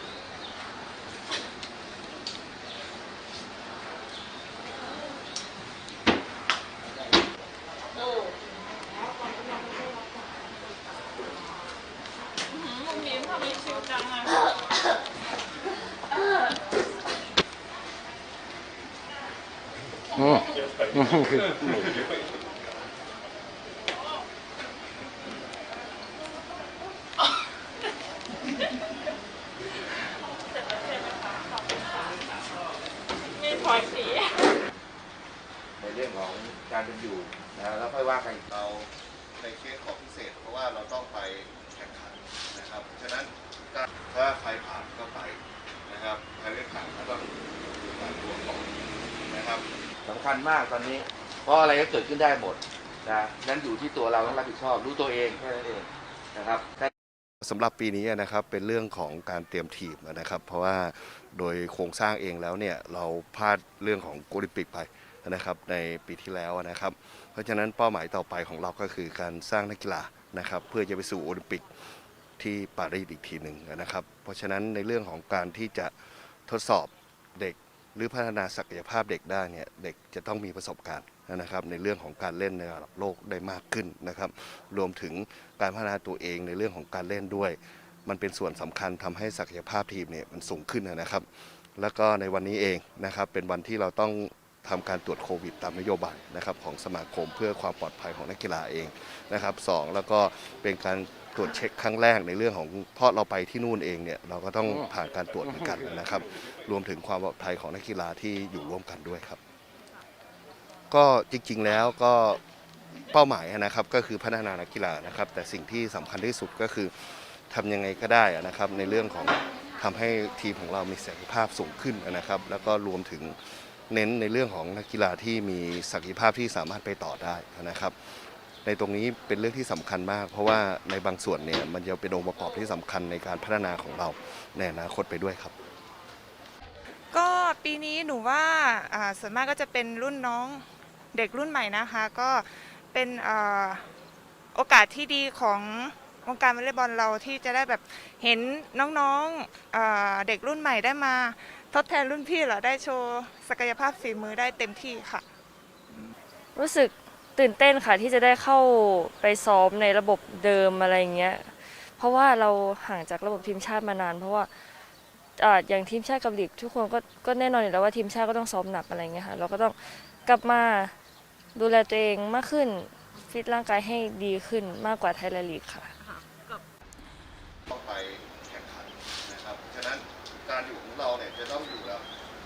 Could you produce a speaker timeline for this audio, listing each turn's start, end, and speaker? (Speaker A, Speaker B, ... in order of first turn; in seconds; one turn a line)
Speaker A: 35.8-38.4
Speaker B: 38.5-47.0
Speaker A: 47.0-47.3
Speaker B: 47.9-48.7
Speaker B: 49.2-49.6
Speaker A: 50.0-56.9
Speaker B: 57.4-71.7
Speaker B: 72.4-91.3
Speaker B: 91.8-109.4
Speaker B: 110.9-112.4
Speaker B: 113.1-135.5
Speaker C: 137.1-143.8
Speaker C: 144.5-155.2
Speaker D: 156.6-164.8
Speaker D: 165.4-170.9
Speaker D: 171.6-175.9
Speaker B: 177.7-182.1